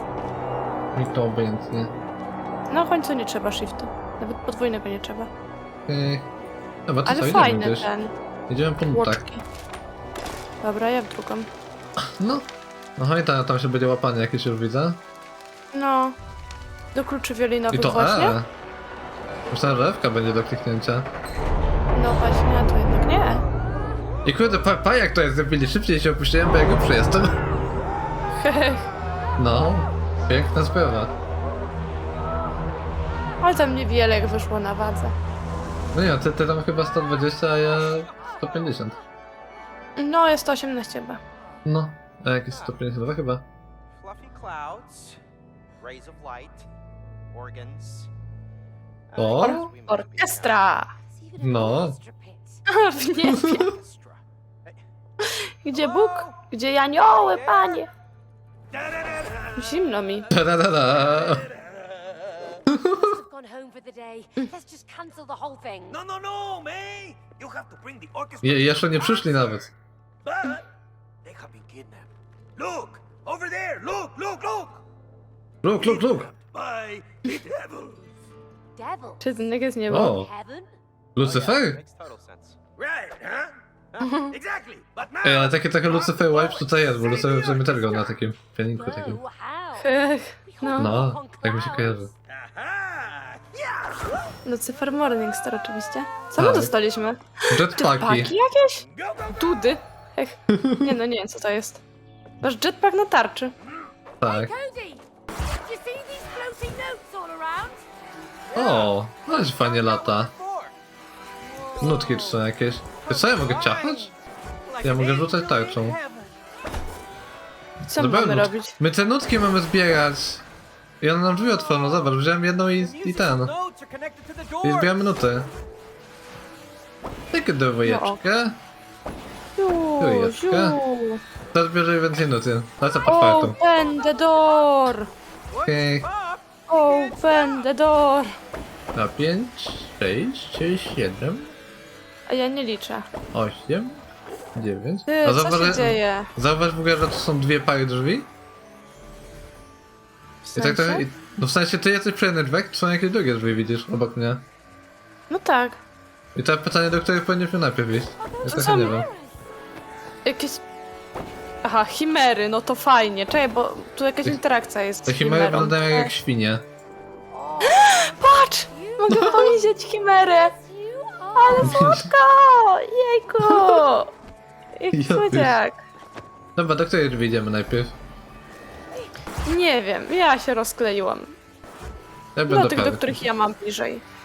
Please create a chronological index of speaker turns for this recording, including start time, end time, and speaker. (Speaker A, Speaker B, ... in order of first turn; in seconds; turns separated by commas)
Speaker A: 0.9-1.9, Speaker B: 2.7-5.3, Speaker A: 5.9-6.3, Speaker A: 6.9-7.9, Speaker B: 7.1-8.1, Speaker A: 8.5-9.2, Speaker B: 8.9-9.4, Speaker B: 10.6-11.5, Speaker A: 12.1-12.5, Speaker A: 13.0-15.0, Speaker B: 15.7-16.2, Speaker B: 16.9-18.4, Speaker A: 17.7-18.5, Speaker A: 19.5-21.1, Speaker B: 21.9-23.4, Speaker A: 24.2-27.4, Speaker B: 28.3-28.9, Speaker A: 29.4-31.1, Speaker B: 33.4-35.1, Speaker A: 35.9-39.0, Speaker B: 40.0-41.2, Speaker A: 41.6-43.5, Speaker C: 44.0-45.2, Speaker C: 45.8-46.7, Speaker C: 47.3-48.1, Speaker C: 49.1-50.7, Speaker A: 49.2-49.7, Speaker B: 49.4-50.9, Speaker D: 51.1-52.6, Speaker A: 51.4-52.0, Speaker B: 52.7-53.7, Speaker A: 53.2-53.7, Speaker C: 53.5-54.8, Speaker B: 55.2-57.9, Speaker C: 55.7-56.5, Speaker C: 57.0-57.9, Speaker C: 58.7-59.7, Speaker B: 59.6-60.3, Speaker A: 60.3-61.5, Speaker C: 61.2-62.2, Speaker A: 62.7-63.1, Speaker D: 62.9-66.0, Speaker C: 65.9-69.6, Speaker A: 68.4-69.7, Speaker C: 70.2-70.6, Speaker C: 71.2-74.8, Speaker A: 75.6-76.3, Speaker C: 75.8-78.0, Speaker D: 78.8-80.7, Speaker B: 79.2-80.2, Speaker A: 79.9-80.3, Speaker A: 81.2-81.8, Speaker C: 81.2-88.1, Speaker B: 84.0-84.3, Speaker A: 85.2-89.2, Speaker D: 88.8-92.1, Speaker B: 89.8-90.9, Speaker A: 90.8-92.1, Speaker C: 92.5-94.1, Speaker B: 94.5-101.8, Speaker A: 96.4-96.7, Speaker A: 97.5-98.3, Speaker C: 99.0-99.6, Speaker A: 100.5-101.0, Speaker B: 102.4-103.5, Speaker A: 104.2-104.5, Speaker D: 104.2-105.0, Speaker D: 105.6-107.9, Speaker A: 108.5-110.3, Speaker C: 108.5-110.8, Speaker C: 111.4-112.4, Speaker A: 111.8-114.1, Speaker C: 113.0-116.3, Speaker A: 114.8-116.0, Speaker B: 117.8-118.8, Speaker A: 118.0-120.5, Speaker A: 121.0-123.5, Speaker C: 121.7-122.0, Speaker C: 122.8-124.9, Speaker A: 124.6-125.5, Speaker A: 127.3-128.6, Speaker B: 127.8-128.2, Speaker B: 129.6-131.2, Speaker A: 130.0-130.8, Speaker A: 131.5-133.6, Speaker B: 133.1-135.1, Speaker C: 133.7-134.5, Speaker C: 135.5-137.7, Speaker A: 135.7-136.1, Speaker B: 136.7-138.3, Speaker A: 138.9-141.5, Speaker B: 142.3-143.1, Speaker A: 143.3-144.0, Speaker A: 144.6-148.3, Speaker B: 145.1-146.3, Speaker B: 150.5-151.0, Speaker A: 150.6-154.5, Speaker B: 155.3-155.8, Speaker A: 156.3-159.1, Speaker D: 158.2-159.3, Speaker B: 158.5-158.9, Speaker B: 160.2-160.6, Speaker B: 161.6-166.1, Speaker A: 165.1-166.7, Speaker D: 167.3-172.0, Speaker B: 167.7-170.6, Speaker A: 169.1-169.6, Speaker B: 171.4-174.1, Speaker A: 171.6-172.1, Speaker A: 173.4-173.8, Speaker B: 174.8-175.8, Speaker A: 174.9-175.6, Speaker A: 176.6-178.0, Speaker B: 179.5-181.4, Speaker A: 182.4-183.2, Speaker B: 182.5-184.0